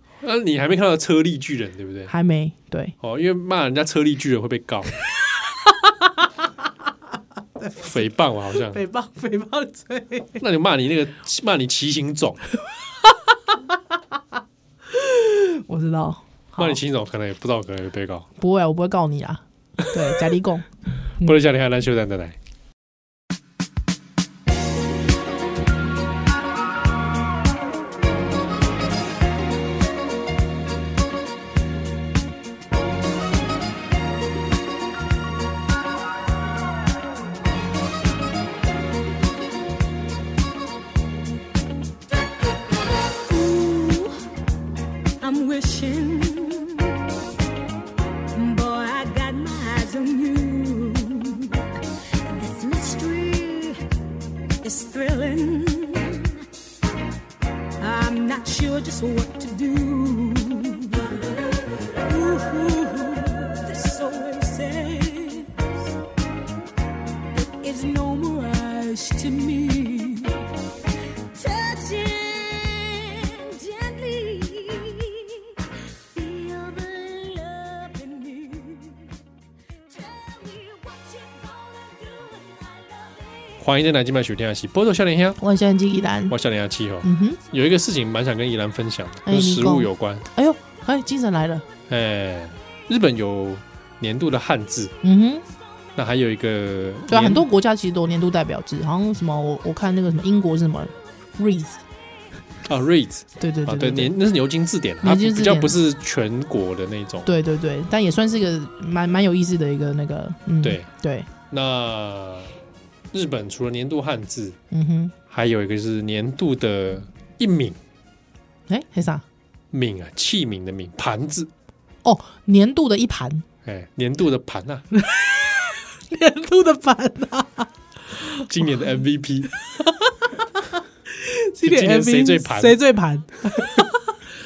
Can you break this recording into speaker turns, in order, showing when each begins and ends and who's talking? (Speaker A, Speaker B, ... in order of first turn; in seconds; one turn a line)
Speaker A: 0.2-2.1
Speaker B: 2.1-3.0
Speaker A: 3.0-4.9
Speaker B: 5.6-6.3
Speaker B: 7.6-8.0
Speaker A: 7.8-8.8
Speaker B: 8.6-10.4
Speaker A: 10.4-12.4
Speaker B: 14.9-16.8
Speaker A: 16.6-18.2
Speaker B: 18.4-20.7
Speaker A: 21.2-22.4
Speaker C: 43.1-44.2
Speaker C: 45.2-47.0
Speaker C: 48.3-51.6
Speaker C: 52.2-53.8
Speaker C: 54.6-56.4
Speaker C: 57.8-61.3
Speaker C: 62.0-65.6
Speaker C: 67.3-70.4
Speaker C: 71.3-75.5
Speaker C: 76.1-79.0
Speaker C: 79.9-83.6
Speaker A: 83.6-85.4
Speaker B: 85.4-86.3
Speaker A: 86.3-90.2
Speaker B: 87.0-87.4
Speaker B: 89.2-91.6
Speaker A: 91.9-94.9
Speaker B: 95.0-95.4
Speaker A: 96.0-97.4
Speaker B: 97.1-101.8
Speaker A: 102.7-107.3
Speaker B: 103.4-104.1
Speaker B: 105.0-105.8
Speaker B: 107.2-111.3
Speaker A: 110.6-110.9
Speaker A: 111.5-112.5
Speaker A: 113.1-114.6
Speaker B: 114.7-115.1
Speaker A: 115.3-117.8
Speaker B: 118.7-119.2
Speaker A: 119.7-121.5
Speaker B: 122.0-123.4
Speaker A: 123.6-124.8
Speaker B: 124.9-128.5
Speaker A: 128.5-129.5
Speaker B: 129.7-134.1
Speaker A: 131.6-132.8